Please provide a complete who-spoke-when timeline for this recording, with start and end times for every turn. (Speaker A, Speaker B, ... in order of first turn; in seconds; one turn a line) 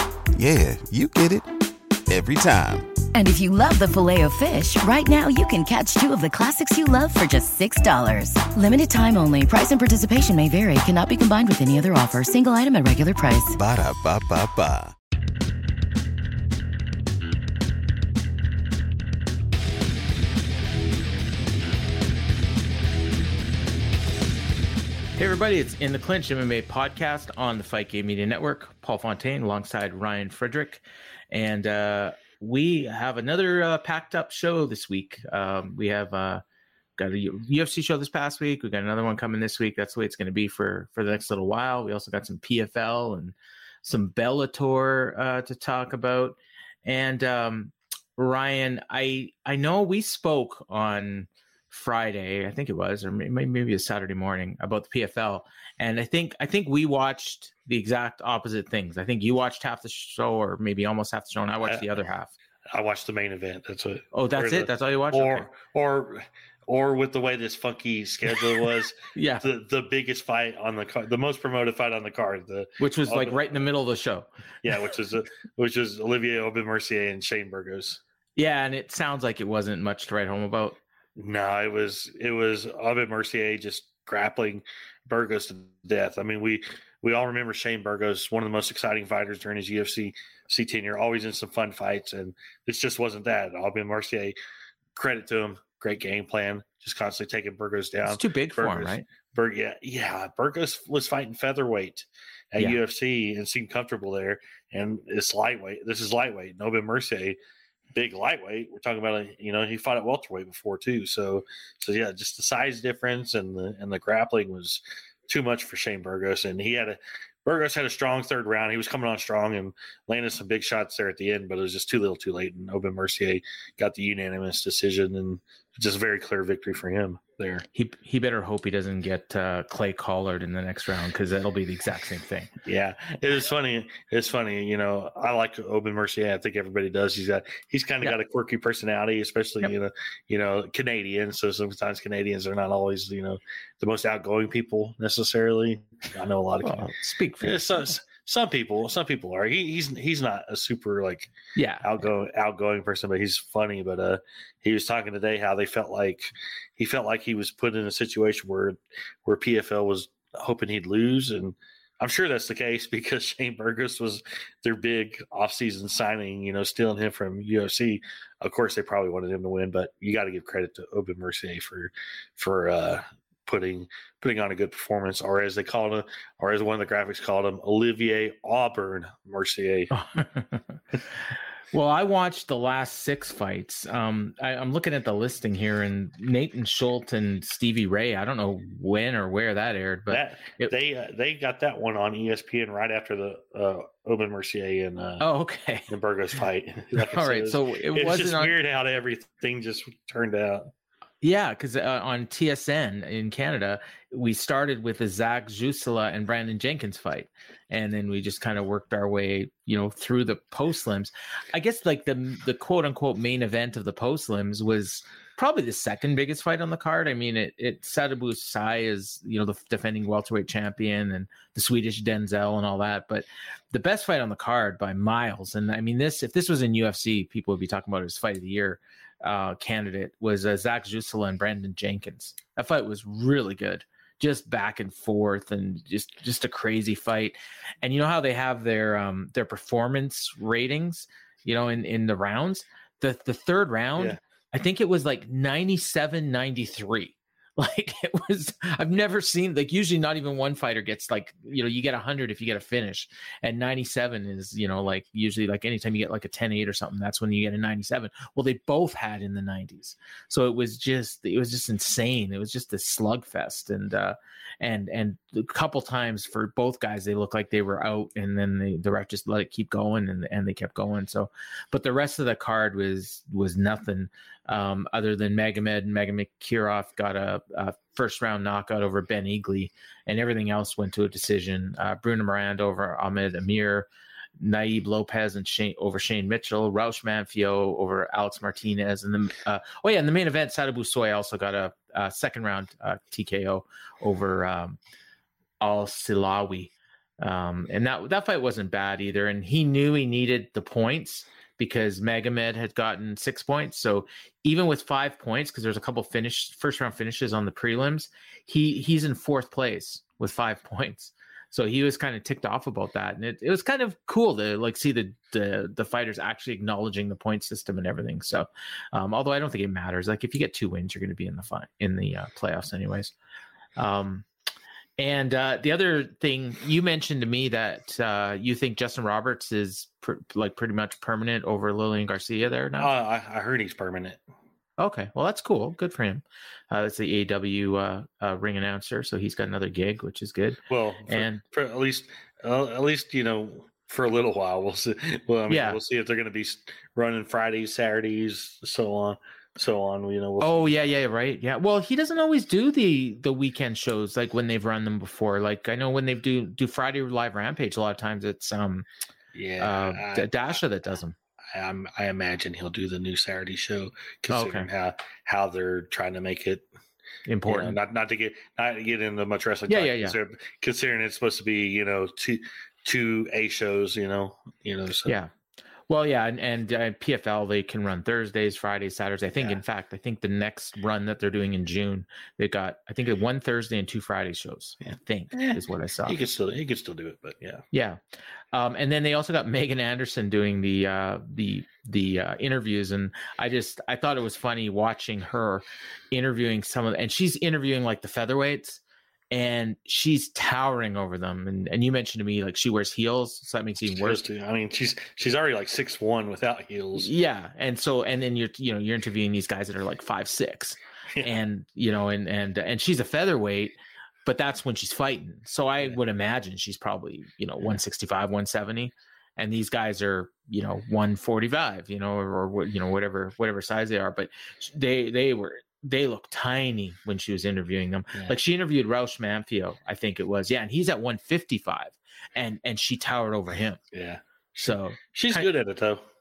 Speaker A: 0.3-1.5
Speaker A: 2.1-2.9
Speaker B: 3.1-13.6
Speaker A: 13.5-14.9
Speaker C: 25.2-36.4
Speaker C: 37.0-62.3
Speaker D: 62.7-73.6
Speaker C: 64.1-65.5
Speaker C: 69.2-69.5
Speaker C: 72.8-74.8
Speaker D: 74.6-78.0
Speaker C: 78.4-80.8
Speaker D: 81.2-94.4
Speaker D: 95.0-107.4
Speaker C: 98.1-99.0
Speaker D: 107.9-127.7
Speaker C: 127.7-132.5
Speaker D: 132.7-151.3
Speaker C: 146.6-148.0
Speaker C: 151.6-152.0
Speaker D: 151.8-179.9
Speaker C: 179.9-180.8
Speaker C: 181.7-190.7
Speaker D: 190.1-195.2
Speaker C: 195.2-195.9
Speaker D: 195.9-200.7
Speaker C: 197.0-198.5
Speaker C: 201.2-283.9
Speaker C: 284.4-294.8
Speaker C: 295.6-323.1
Speaker C: 323.8-324.3
Speaker C: 325.0-332.9
Speaker D: 332.8-334.2
Speaker C: 334.8-341.4
Speaker D: 340.7-350.8
Speaker C: 345.5-345.8
Speaker C: 350.4-358.9
Speaker D: 359.3-360.6
Speaker C: 359.6-361.2
Speaker D: 361.5-366.7
Speaker C: 364.3-364.7
Speaker C: 367.3-367.8
Speaker D: 367.5-375.1
Speaker C: 369.7-370.2
Speaker C: 375.9-386.2
Speaker D: 384.8-387.6
Speaker C: 387.7-388.0
Speaker C: 388.5-398.8
Speaker C: 399.3-404.2
Speaker D: 403.9-407.1
Speaker C: 407.0-433.8
Speaker D: 433.9-436.0
Speaker C: 434.6-435.5